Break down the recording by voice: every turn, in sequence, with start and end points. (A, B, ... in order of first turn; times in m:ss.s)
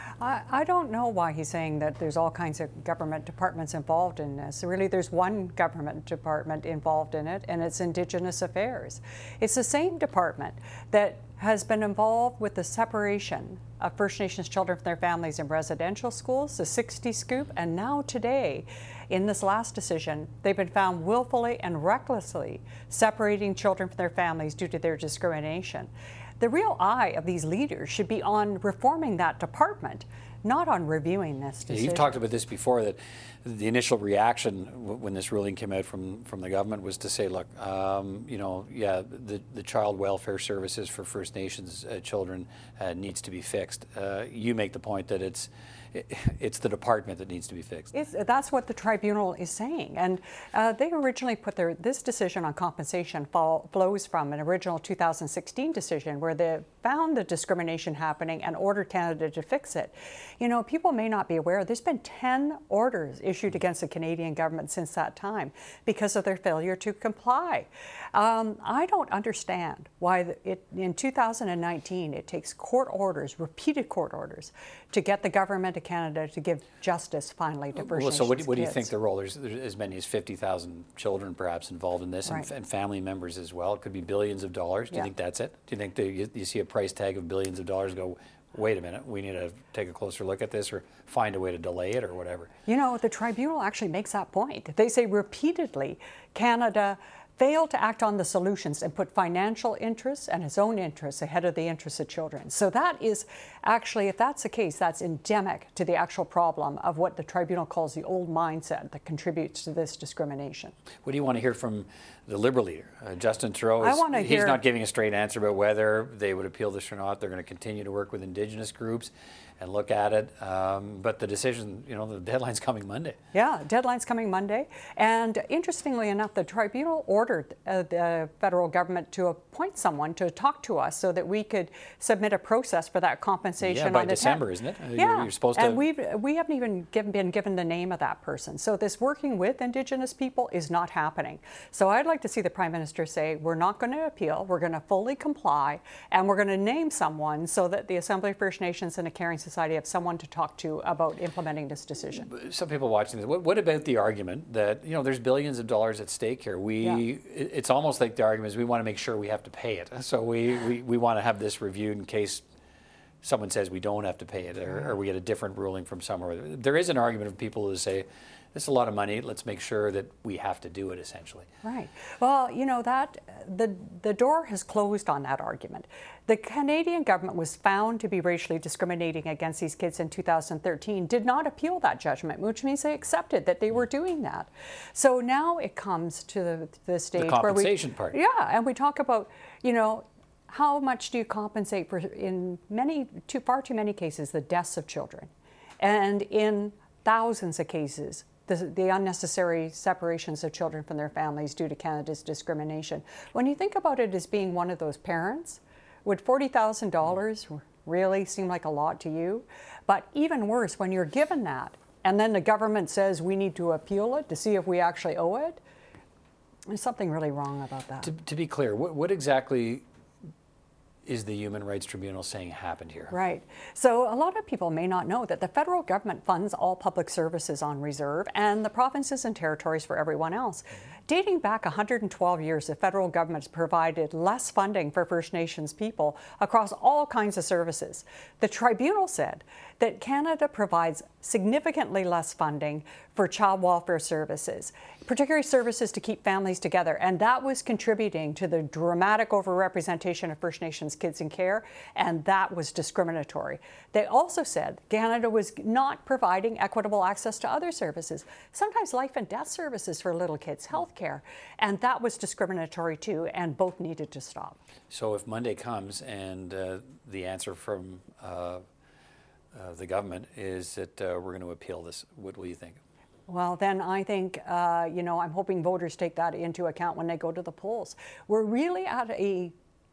0:00.2-0:32.2 A
0:31.7-0:47.9 B
0:47.9-1:18.9 A
1:17.8-1:32.5 B
1:22.2-1:22.5 A
1:32.7-1:50.7 A
1:51.0-2:03.2 B
1:53.8-1:54.6 A
2:03.3-2:32.3 A
2:13.6-2:15.8 B
2:32.2-2:42.4 B
2:43.2-2:51.5 B
2:51.6-3:35.6 A
3:07.2-3:08.2 B
3:36.7-3:38.1 A
3:38.0-3:39.8 B
3:41.0-3:43.1 B
3:43.1-4:24.6 A
4:24.9-4:28.6 B
4:29.5-4:32.8 B
4:33.3-4:39.5 A